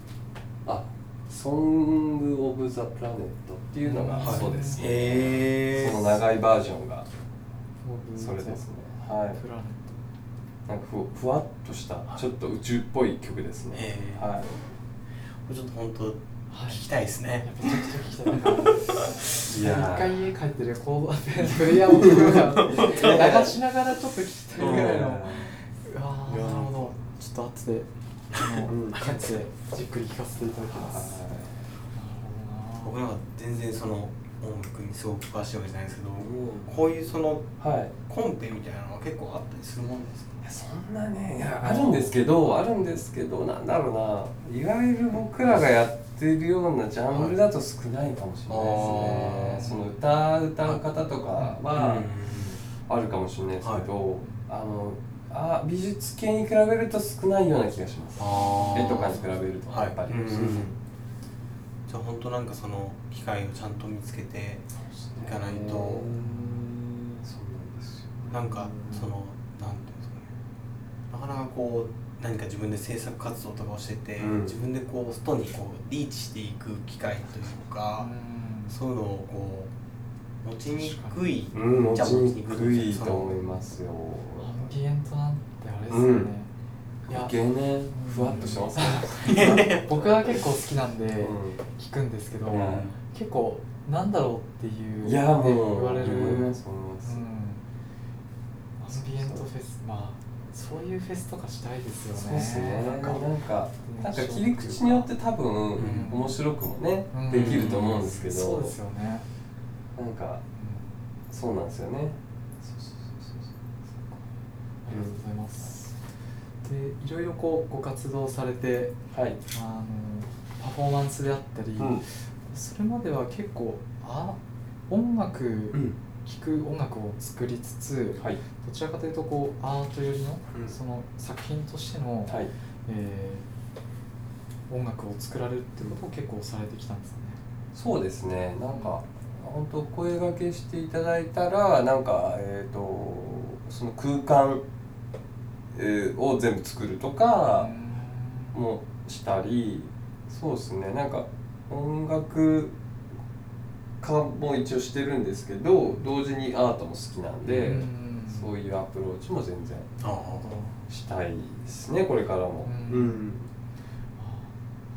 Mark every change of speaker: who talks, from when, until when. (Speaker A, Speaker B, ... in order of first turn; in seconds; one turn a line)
Speaker A: 0.6-7.1
Speaker B: 3.8-4.9
Speaker C: 4.2-6.2
Speaker B: 7.8-8.6
Speaker A: 8.2-9.4
Speaker B: 9.3-10.0
Speaker A: 10.7-14.5
Speaker C: 13.7-14.3
Speaker C: 15.4-17.8
Speaker B: 16.5-16.9
Speaker B: 17.4-31.2
Speaker C: 18.4-18.7
Speaker A: 19.4-20.2
Speaker C: 21.5-23.5
Speaker A: 21.9-23.5
Speaker A: 24.6-25.5
Speaker C: 24.6-25.1
Speaker C: 26.3-26.9
Speaker C: 28.3-29.4
Speaker A: 28.7-29.0
Speaker A: 30.7-31.6
Speaker B: 31.9-33.0
Speaker C: 32.8-37.5
Speaker A: 36.1-36.9
Speaker A: 37.6-37.9
Speaker C: 38.1-40.5
Speaker A: 40.4-52.1
Speaker B: 41.6-42.1
Speaker C: 48.5-49.7
Speaker B: 48.7-49.9
Speaker C: 51.7-52.6
Speaker A: 52.9-60.7
Speaker C: 53.6-53.9
Speaker C: 58.2-60.8
Speaker B: 58.2-59.3
Speaker C: 61.9-66.1
Speaker A: 64.8-69.1
Speaker B: 66.2-66.6
Speaker C: 68.3-70.3
Speaker C: 71.1-78.1
Speaker A: 74.2-74.6
Speaker B: 78.0-78.8
Speaker C: 78.7-79.7
Speaker C: 80.4-83.3
Speaker B: 80.7-81.2
Speaker A: 81.5-84.7
Speaker B: 84.4-86.5
Speaker A: 85.9-86.3
Speaker B: 87.1-87.3
Speaker A: 87.1-89.7
Speaker B: 87.9-97.6
Speaker C: 89.2-90.2
Speaker A: 91.2-91.6
Speaker A: 92.5-92.9
Speaker A: 95.0-97.2
Speaker B: 98.8-103.2
Speaker A: 102.1-108.7
Speaker B: 103.8-105.1
Speaker C: 105.8-106.1
Speaker B: 105.8-106.4
Speaker B: 107.1-109.2
Speaker C: 107.3-108.1
Speaker A: 110.0-110.4
Speaker B: 110.5-111.0
Speaker A: 111.3-113.5
Speaker B: 114.8-115.9
Speaker A: 114.9-115.2
Speaker B: 116.6-118.9
Speaker A: 119.1-119.4
Speaker B: 119.5-124.4
Speaker A: 121.8-122.0
Speaker B: 124.9-133.4
Speaker B: 134.7-137.4
Speaker A: 137.7-144.6
Speaker B: 138.7-138.9
Speaker A: 145.7-147.7
Speaker B: 147.5-148.5
Speaker A: 148.5-152.7
Speaker A: 154.0-159.9
Speaker C: 157.4-157.7
Speaker B: 157.5-158.5
Speaker C: 160.0-160.6
Speaker B: 160.3-160.8
Speaker A: 160.9-163.5
Speaker B: 162.6-163.3
Speaker B: 164.2-164.5